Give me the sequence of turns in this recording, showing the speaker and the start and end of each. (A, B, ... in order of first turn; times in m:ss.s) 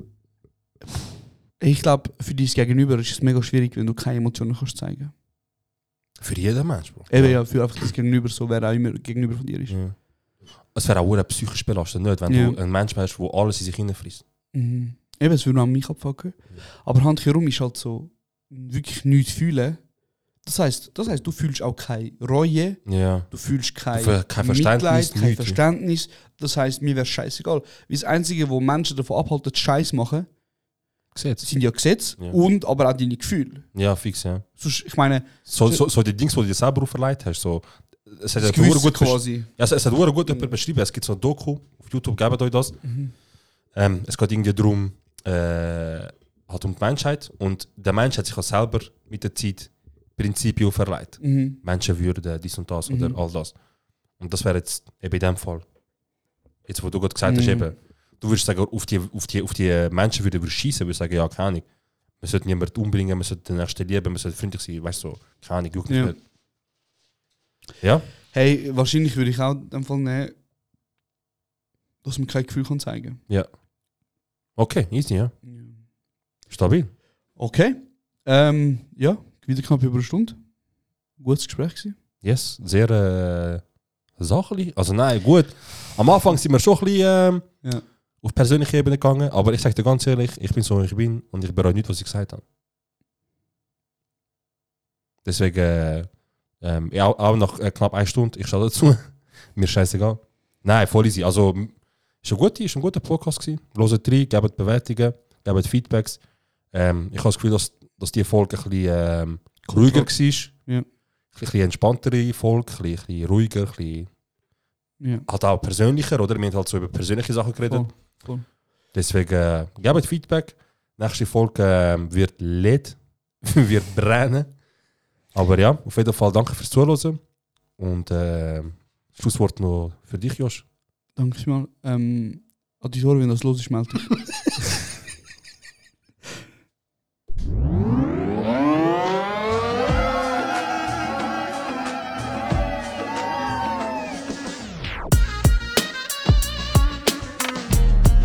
0:01.6-0:05.1 A
0:06.2-0:07.4 B
0:07.1-0:09.8 A
0:09.7-0:10.0 B
0:10.7-0:14.2 B
0:12.3-0:12.6 A
0:14.5-0:19.8 A
0:20.4-0:30.3 A
0:22.9-0:23.3 B
0:23.9-0:25.6 B
0:31.2-0:31.5 B
0:31.4-0:33.7 A
0:33.8-0:34.4 B
0:34.6-0:35.8 A
0:35.5-0:42.8 B
0:38.4-0:39.5 A
0:40.3-0:40.5 A
0:42.8-0:43.1 A
0:43.8-0:53.6 B
0:51.2-0:51.6 A
0:52.9-0:53.2 A
0:54.2-0:55.6 B
0:56.6-1:01.7 B
0:57.2-0:57.7 A
1:02.2-1:06.2 B
1:05.9-1:06.2 A
1:07.8-1:08.1 B
1:08.3-1:10.3 A
1:12.0-1:13.2 A
1:14.6-1:15.3 B
1:15.4-1:15.8 A
1:16.5-1:16.9 B
1:17.4-1:20.4 A
1:21.2-1:22.0 A
1:22.2-1:23.6 B
1:24.2-1:27.5 B
1:28.2-1:32.4 B
1:35.2-1:36.1 B
1:36.6-1:46.2 B
1:46.7-1:50.5 B
1:49.6-1:50.8 A
1:51.3-1:54.1 B
1:55.0-1:55.3 A
1:55.3-1:57.9 B
1:57.7-1:58.4 A
1:58.9-2:04.5 B
2:05.4-2:07.2 B
2:07.8-2:10.6 B
2:11.2-2:14.2 A